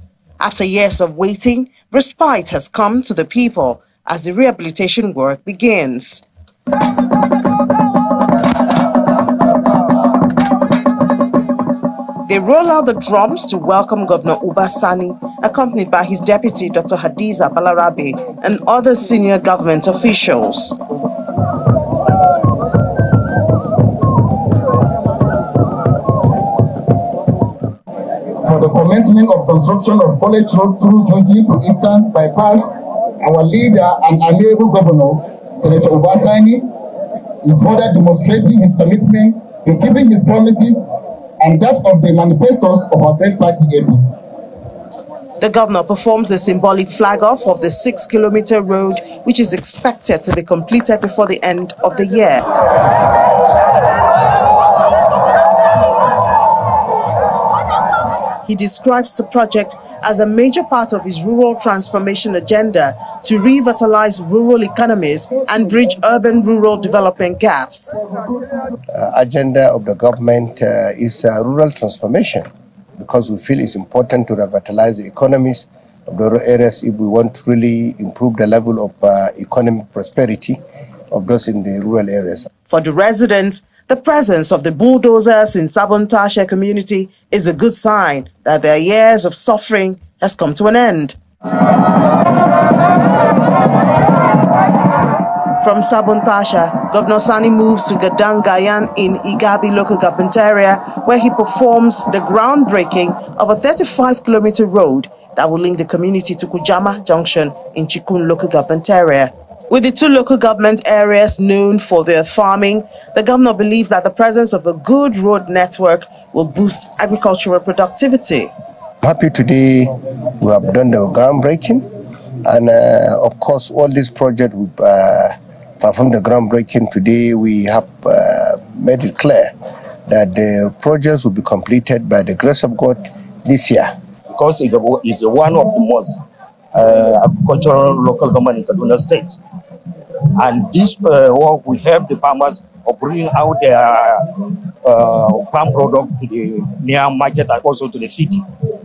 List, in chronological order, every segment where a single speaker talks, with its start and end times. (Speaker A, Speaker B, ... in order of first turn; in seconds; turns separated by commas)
Speaker A: 0.4-6.2, Speaker A: 12.2-20.8, Speaker B: 28.4-36.7, Speaker B: 37.4-40.9, Speaker B: 41.4-44.1, Speaker A: 45.4-52.5, Speaker A: 58.4-68.0, Speaker C: 68.9-80.6, Speaker C: 81.1-82.5, Speaker A: 82.7-91.1, Speaker A: 95.6-118.5, Speaker C: 119.0-121.8, Speaker C: 122.4-129.5, Speaker C: 130.1-133.9, Speaker D: 134.3-136.2, Speaker D: 136.7-139.4, Speaker D: 140.3-144.2, Speaker D: 144.8-148.4